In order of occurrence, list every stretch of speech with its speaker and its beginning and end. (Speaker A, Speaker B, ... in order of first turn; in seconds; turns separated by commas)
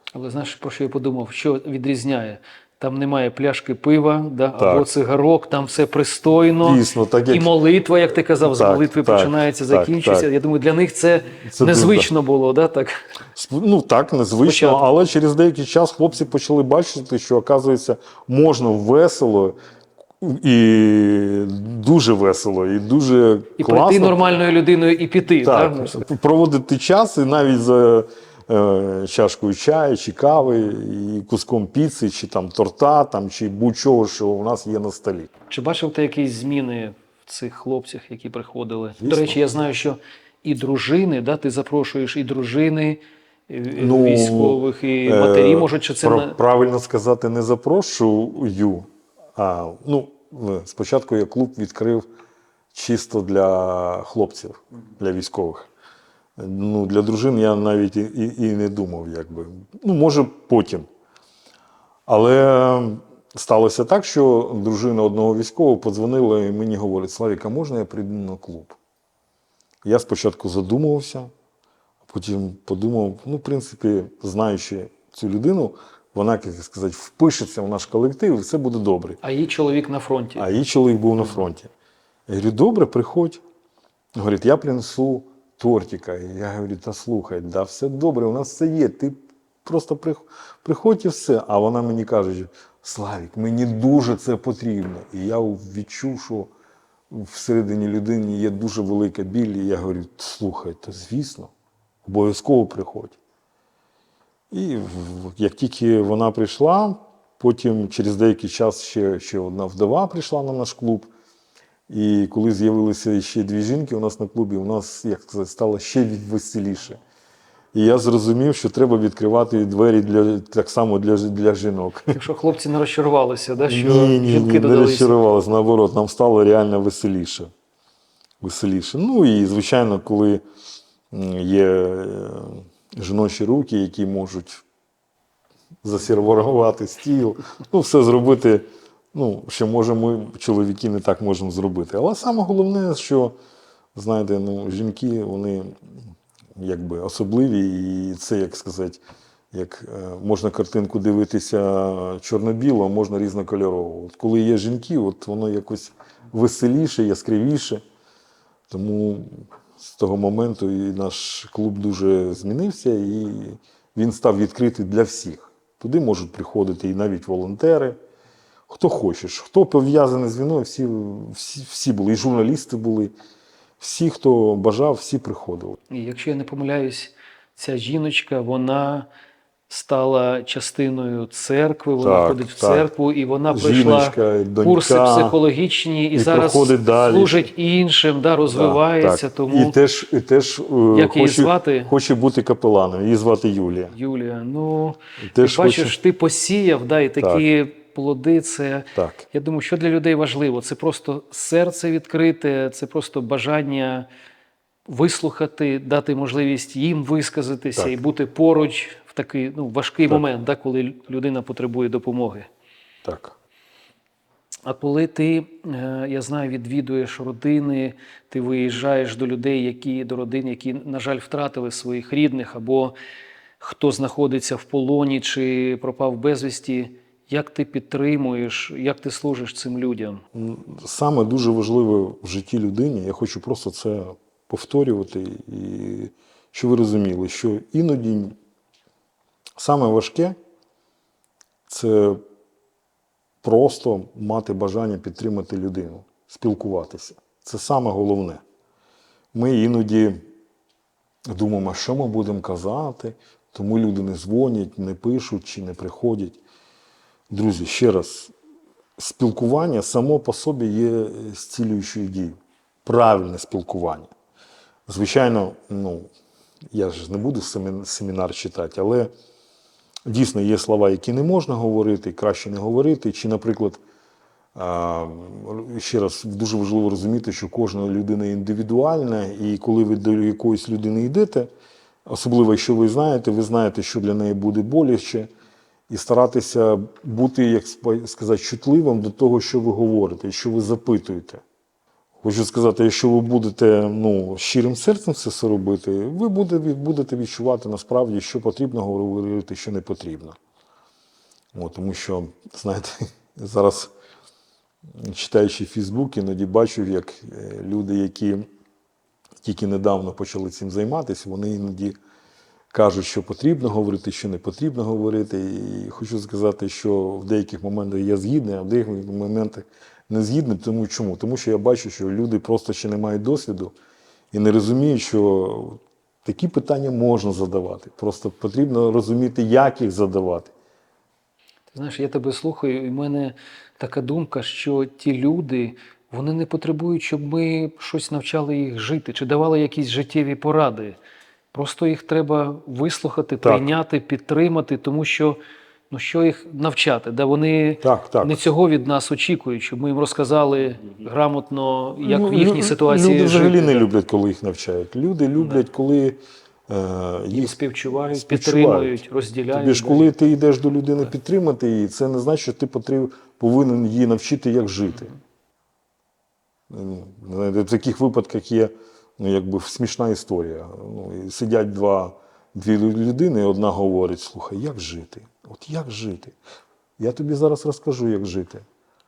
Speaker A: 0.1-12.9, Speaker B: 4.6-4.9, Speaker B: 6.6-7.5, Speaker B: 8.4-10.3, Speaker B: 11.4-12.1, Speaker B: 13.3-19.5, Speaker A: 14.4-14.8, Speaker B: 20.2-24.2, Speaker A: 23.6-26.0, Speaker B: 25.4-35.3, Speaker A: 35.5-46.4, Speaker B: 39.0-39.4, Speaker B: 43.8-52.1, Speaker B: 52.7-55.7, Speaker B: 56.4-60.9, Speaker B: 62.1-68.8, Speaker B: 69.8-71.3, Speaker B: 72.0-79.2, Speaker A: 79.2-80.4, Speaker B: 80.3-81.7, Speaker B: 82.3-83.4, Speaker B: 84.2-96.5, Speaker B: 97.1-101.5, Speaker B: 102.0-103.2, Speaker B: 104.5-111.1, Speaker B: 111.9-117.0, Speaker B: 117.7-122.2, Speaker A: 122.1-125.2, Speaker B: 123.7-127.5, Speaker B: 128.4-130.4, Speaker B: 131.1-134.6, Speaker B: 135.8-143.3, Speaker B: 143.9-145.7, Speaker B: 146.6-149.0, Speaker B: 149.5-157.8, Speaker B: 158.7-168.0, Speaker B: 168.7-173.1, Speaker B: 173.8-175.8, Speaker A: 175.9-179.1, Speaker A: 179.7-189.7, Speaker B: 182.0-182.9, Speaker B: 183.5-185.4, Speaker B: 186.1-187.5, Speaker B: 188.5-193.9, Speaker A: 190.9-191.9, Speaker A: 193.9-204.1, Speaker B: 195.2-195.9, Speaker B: 197.2-197.4, Speaker B: 198.9-199.2, Speaker A: 204.9-212.5, Speaker B: 213.0-213.3, Speaker A: 214.6-222.9, Speaker A: 223.6-230.2, Speaker B: 230.3-238.3, Speaker B: 239.6-240.3, Speaker B: 241.7-242.2, Speaker B: 243.4-248.4, Speaker B: 249.3-250.3, Speaker B: 251.3-256.4, Speaker B: 257.3-258.3, Speaker B: 259.0-264.1, Speaker B: 264.9-266.1, Speaker B: 266.7-269.1, Speaker B: 270.1-273.8, Speaker B: 274.6-281.5, Speaker B: 282.1-285.3, Speaker B: 285.9-291.4, Speaker B: 292.2-300.4, Speaker B: 301.5-303.9, Speaker B: 305.0-308.5, Speaker B: 309.4-311.9, Speaker B: 312.7-323.7, Speaker B: 324.3-330.5, Speaker A: 331.7-341.0, Speaker A: 341.5-345.4, Speaker B: 343.4-343.7, Speaker A: 345.9-353.9, Speaker B: 347.8-348.4, Speaker B: 352.0-365.1, Speaker A: 357.3-360.1, Speaker B: 366.7-376.3, Speaker B: 377.0-378.6